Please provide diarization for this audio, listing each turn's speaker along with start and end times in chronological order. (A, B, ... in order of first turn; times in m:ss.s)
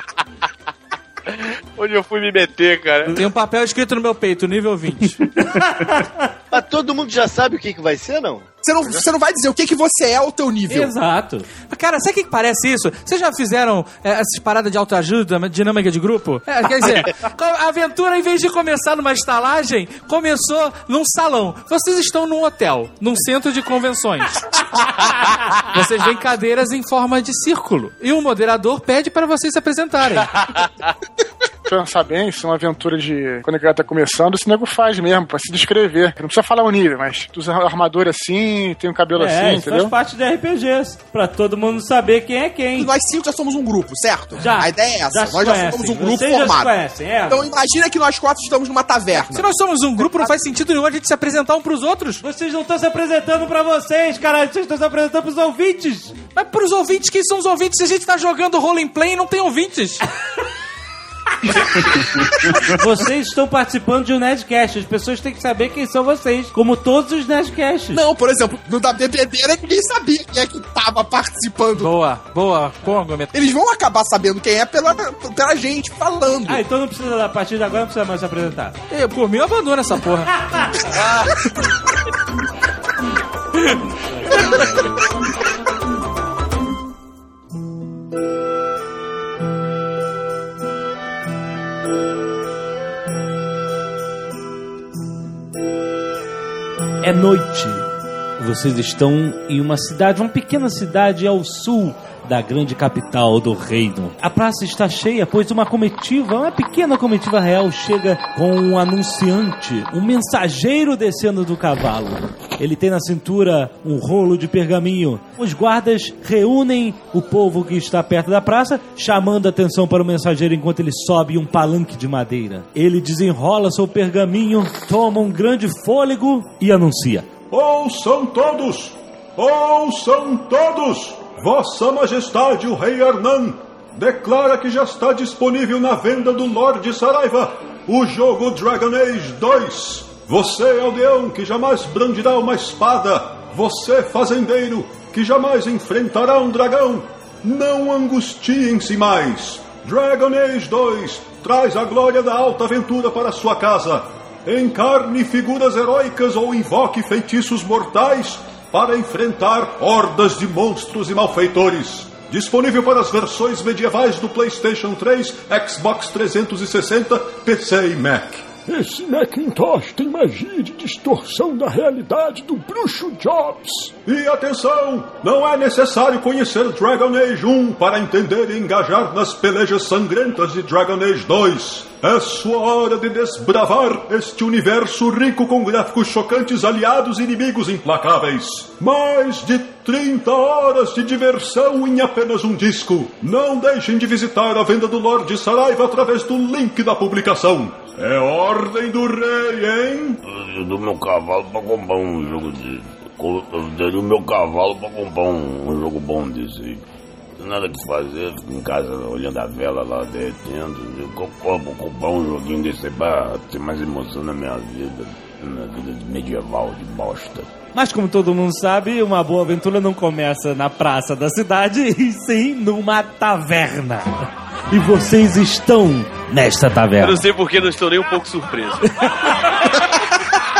0:01.3-0:03.1 A
0:03.1-0:05.3 B
0:05.4-0:06.3 C
0:06.5-0:08.5 D
0:08.6-0:10.9 E
0:10.7-0:11.5 C
0:11.7-0:24.5 B
0:25.6-0:30.4 B
0:31.7-0:39.9 F
0:39.2-0:42.9 C
0:42.8-0:46.7 E
0:44.4-0:47.5 C
0:47.3-0:49.5 E
0:49.2-0:52.2 B
0:52.2-0:56.1 C
0:56.3-1:00.0 B
1:02.6-1:08.0 C
1:07.9-1:11.9 E
1:11.8-1:13.5 B
1:13.3-1:16.6 E
1:16.5-1:18.7 C
1:18.9-1:20.3 B
1:24.1-1:25.0 C
1:37.0-2:07.3 C
2:07.5-2:48.5 G
2:48.6-2:53.9 H
2:54.0-3:20.2 G
3:20.2-3:26.8 I
3:27.4-3:37.5 I
3:37.7-3:47.2 C
3:47.0-3:48.9 A
3:48.9-3:49.3 C